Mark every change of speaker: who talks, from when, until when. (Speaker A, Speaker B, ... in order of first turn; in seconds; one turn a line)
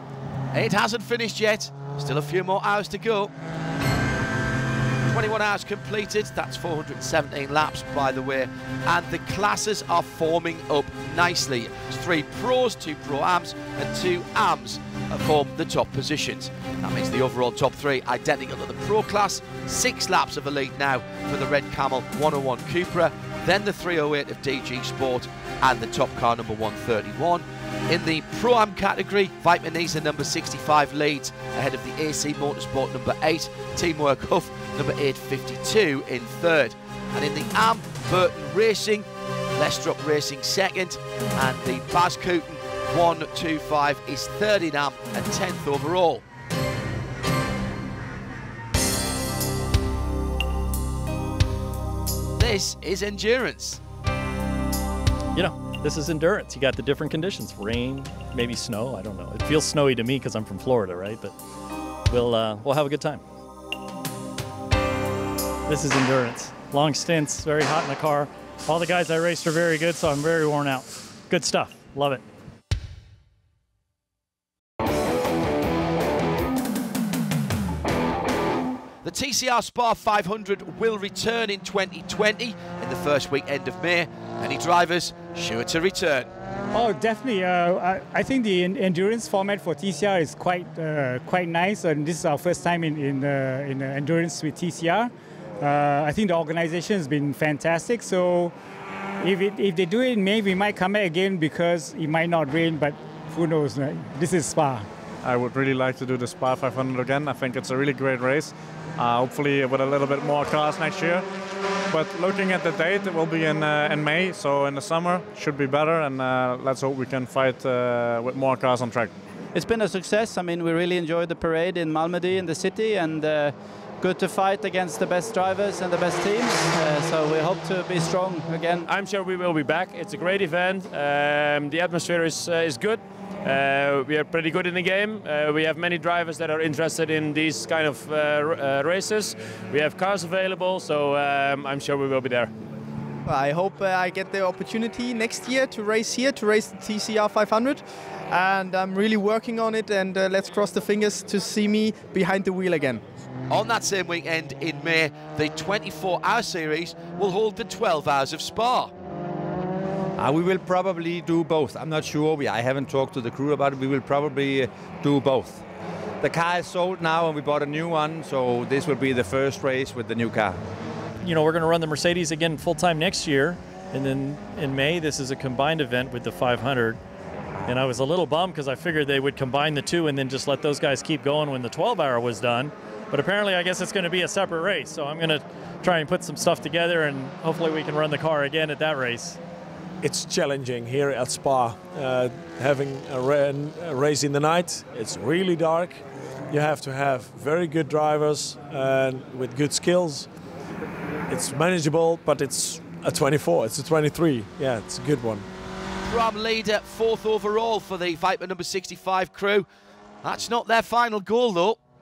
Speaker A: 0.5-3.3
Speaker A: 5.0-46.2
Speaker A: 52.4-53.8
Speaker B: 55.4-61.3
Speaker B: 62.1-63.2
Speaker B: 65.7-72.2
Speaker A: 79.0-86.3
Speaker C: 86.7-98.5
Speaker C: 99.2-104.9
Speaker D: 105.2-111.2
Speaker D: 111.9-119.1
Speaker E: 119.5-128.9
Speaker F: 128.9-142.5
Speaker G: 143.3-153.0
Speaker A: 153.5-158.9
Speaker H: 160.2-165.6
Speaker H: 166.2-170.6
Speaker B: 171.2-177.0
Speaker B: 177.7-189.4
Speaker I: 190.0-200.3
Speaker I: 201.3-205.5
Speaker A: 206.1-209.7
Speaker A: 210.2-211.8